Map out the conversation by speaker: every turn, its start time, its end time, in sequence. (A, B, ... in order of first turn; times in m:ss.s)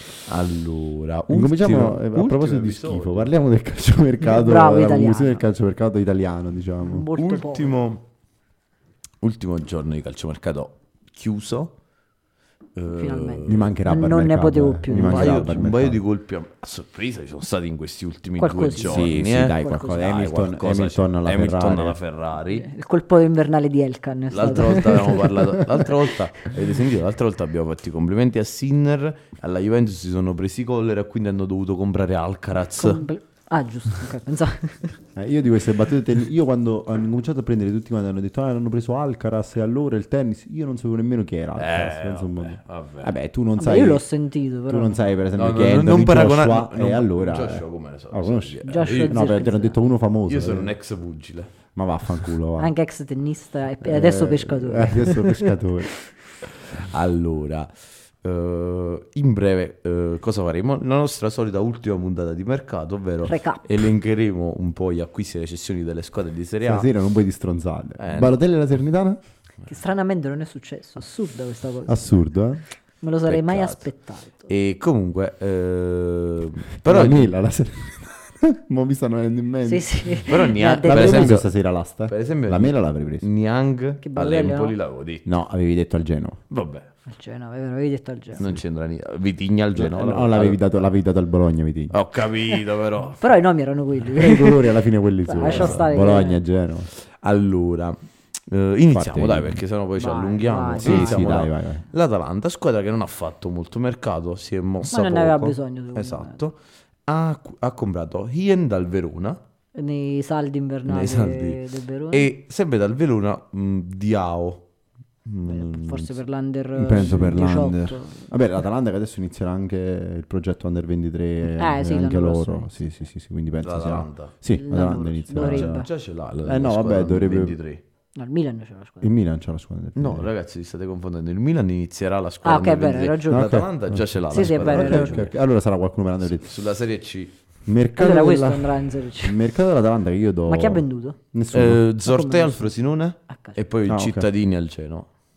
0:00.2-0:03.3 A
0:01.3-0:07.1 B
0:04.2-0:05.4 C
0:06.8-0:07.8 C
0:07.2-0:08.0 A
0:09.2-0:11.7 A
0:12.7-0:13.8 A
0:12.9-0:15.6 C
0:13.4-0:16.0 B
0:14.9-0:22.7 A
0:18.4-0:20.1 C
0:18.8-0:22.0 B
0:22.4-0:25.8 C
0:24.3-0:33.0 A
0:32.8-0:35.0 C
0:35.1-0:44.0 B
0:41.6-0:43.1 A
0:43.6-0:45.0 C
0:44.7-0:50.8 B
0:45.3-0:49.2 A
0:48.6-0:49.8 C
0:50.3-0:51.5 A
0:51.7-0:52.7 B
0:52.6-0:55.6 C
0:53.8-0:56.0 B
0:56.5-1:06.9 A
1:03.2-1:03.6 C
1:06.6-1:09.2 B
1:08.0-1:08.4 A
1:09.6-1:12.1 C
1:11.8-1:12.6 B
1:13.0-1:14.5 C
1:13.3-1:13.8 A
1:14.5-1:17.3 A
1:16.8-1:23.3 B
1:19.6-1:21.4 C
1:20.2-1:21.5 A
1:22.1-1:25.3 A
1:24.0-1:24.8 C
1:25.2-1:26.4 B
1:26.5-1:26.9 A
1:27.1-1:28.4 C
1:28.4-1:30.6 A
1:29.7-1:32.0 B
1:31.9-1:33.2 A
1:33.2-1:36.4 C
1:34.1-1:36.9 B
1:35.4-1:35.9 A
1:36.9-1:38.0 A
1:38.5-1:49.4 A
1:38.9-1:39.6 B
1:40.0-1:41.4 C
1:40.7-1:41.8 B
1:44.8-1:46.4 C
1:49.7-1:52.3 C
1:50.8-1:54.6 A
1:55.2-1:56.1 A
1:55.4-1:58.3 C
1:56.8-2:05.9 B
1:57.0-1:57.3 A
2:01.4-2:02.8 C
2:03.6-2:04.3 A
2:04.5-2:05.9 C
2:05.3-2:07.8 A
2:06.4-2:07.6 B
2:08.2-2:09.1 C
2:09.0-2:10.3 B
2:10.0-2:15.3 A
2:12.4-2:13.6 C
2:13.3-2:16.6 B
2:14.3-2:15.3 C
2:16.2-2:17.4 A
2:17.6-2:21.8 B
2:18.0-2:19.4 C
2:20.4-2:21.2 C
2:21.5-2:25.1 A
2:22.0-2:22.8 C
2:23.3-2:23.6 C
2:23.9-2:24.3 B